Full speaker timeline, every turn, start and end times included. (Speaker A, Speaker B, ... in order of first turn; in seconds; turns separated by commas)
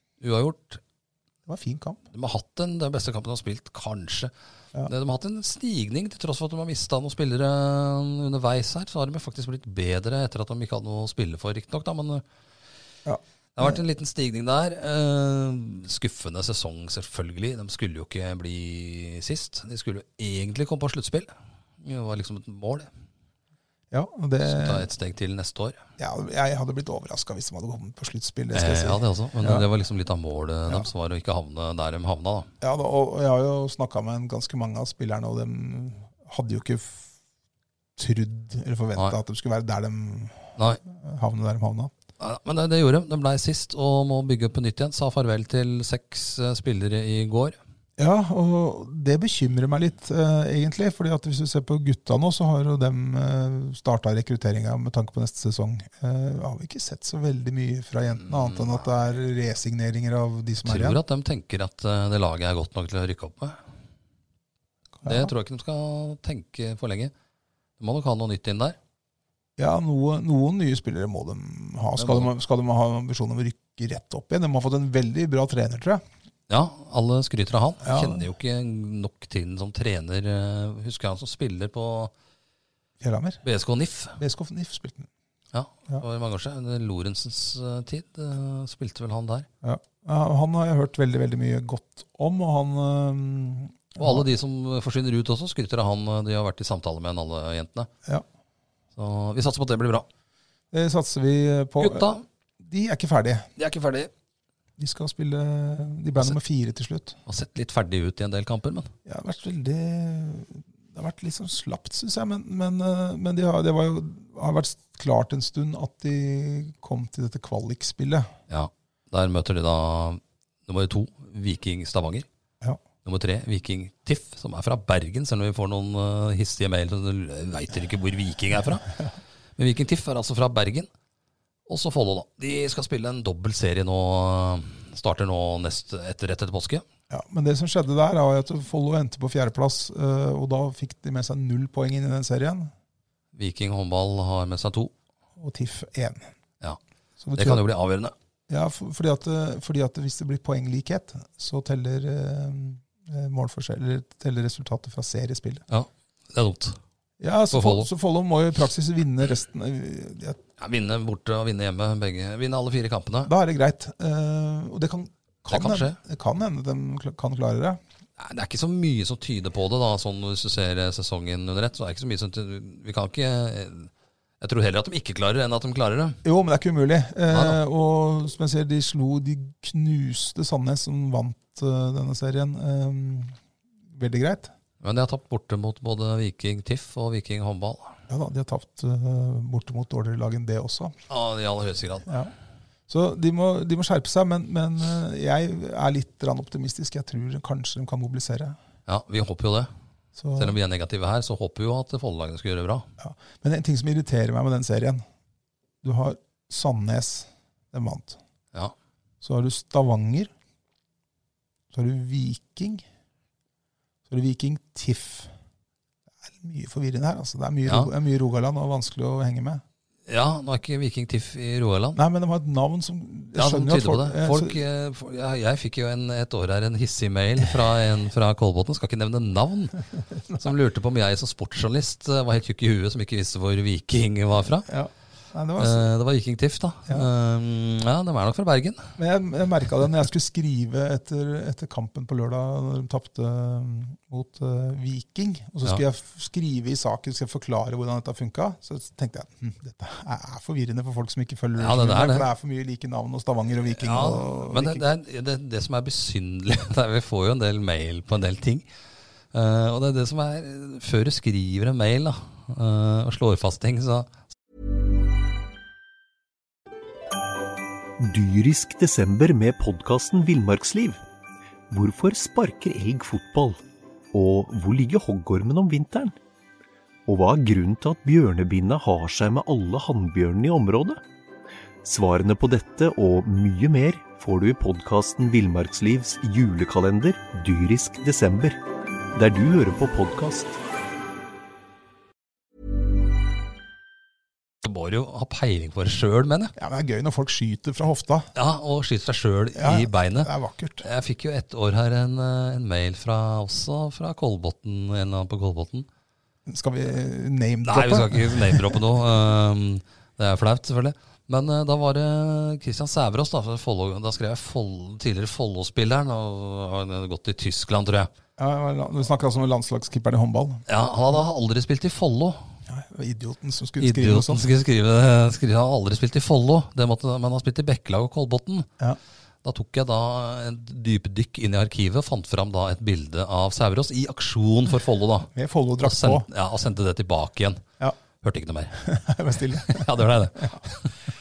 Speaker A: 0.2-0.8, Speaker B: 1.4-2.0, Speaker A: 2.1-4.3, Speaker A: 4.8-12.2, Speaker B: 13.1-13.8, Speaker A: 13.6-22.9, Speaker B: 23.9-24.9, Speaker A: 24.4-25.8, Speaker B: 26.0-29.7, Speaker A: 28.5-32.5, Speaker B: 32.6-37.1, Speaker B: 38.0-41.9, Speaker A: 42.2-47.5, Speaker B: 48.0-61.0, Speaker A: 60.6-63.6, Speaker B: 65.0-65.3, Speaker A: 65.0-67.1, Speaker A: 67.8-68.8, Speaker B: 69.6-76.0, Speaker A: 72.0-72.3, Speaker A: 76.5-82.1, Speaker B: 77.8-78.2, Speaker B: 83.0-83.4, Speaker A: 83.4-84.2, Speaker B: 84.2-85.1, Speaker A: 85.5-89.5, Speaker B: 89.6-94.3, Speaker A: 94.0-97.9, Speaker A: 98.9-100.1, Speaker B: 100.7-102.1, Speaker A: 101.8-102.2, Speaker B: 102.6-103.5, Speaker A: 103.6-104.1, Speaker B: 104.8-107.2, Speaker A: 107.2-108.9, Speaker B: 109.0-118.3, Speaker A: 118.5-122.2, Speaker A: 123.0-128.9, Speaker A: 129.6-130.9, Speaker A: 131.7-136.8, Speaker B: 137.1-142.7, Speaker A: 143.3-144.9, Speaker B: 145.4-146.3, Speaker B: 147.2-147.6, Speaker A: 147.3-148.1, Speaker B: 148.5-155.6, Speaker A: 155.7-156.8, Speaker B: 157.2-160.4, Speaker A: 157.5-157.9, Speaker A: 160.6-163.3, Speaker B: 163.2-167.8, Speaker A: 165.5-166.0, Speaker A: 168.2-176.2, Speaker B: 176.2-183.3, Speaker A: 177.3-177.6, Speaker B: 183.9-184.5, Speaker A: 184.8-188.0, Speaker B: 188.1-190.9, Speaker A: 191.1-192.1, Speaker B: 192.9-198.6, Speaker A: 198.8-199.7, Speaker B: 200.2-200.6, Speaker A: 200.3-202.9, Speaker B: 203.0-205.0, Speaker B: 205.8-208.2, Speaker B: 209.2-210.3, Speaker B: 211.7-212.8, Speaker B: 214.1-215.3, Speaker B: 216.2-219.6, Speaker A: 217.7-217.9, Speaker A: 220.1-222.0, Speaker B: 221.9-224.6, Speaker A: 223.3-234.7, Speaker B: 234.7-235.9, Speaker A: 235.6-238.9, Speaker B: 239.0-254.9, Speaker A: 251.6-252.3, Speaker A: 253.7-258.6, Speaker A: 259.3-264.1, Speaker C: 268.0-271.0, Speaker C: 271.7-273.6, Speaker C: 274.1-276.1, Speaker C: 277.1-281.0, Speaker C: 281.8-288.6, Speaker C: 289.1-290.6, Speaker A: 294.6-296.5, Speaker B: 296.6-298.3, Speaker A: 298.3-300.3, Speaker B: 299.5-300.8, Speaker A: 300.8-305.9, Speaker B: 306.4-308.8, Speaker A: 307.6-318.1, Speaker B: 318.4-320.6, Speaker A: 320.7-322.4, Speaker B: 322.7-324.4, Speaker A: 323.8-328.7, Speaker A: 329.4-337.6, Speaker B: 335.3-336.3, Speaker A: 338.2-338.8, Speaker B: 338.8-340.6, Speaker A: 339.6-340.9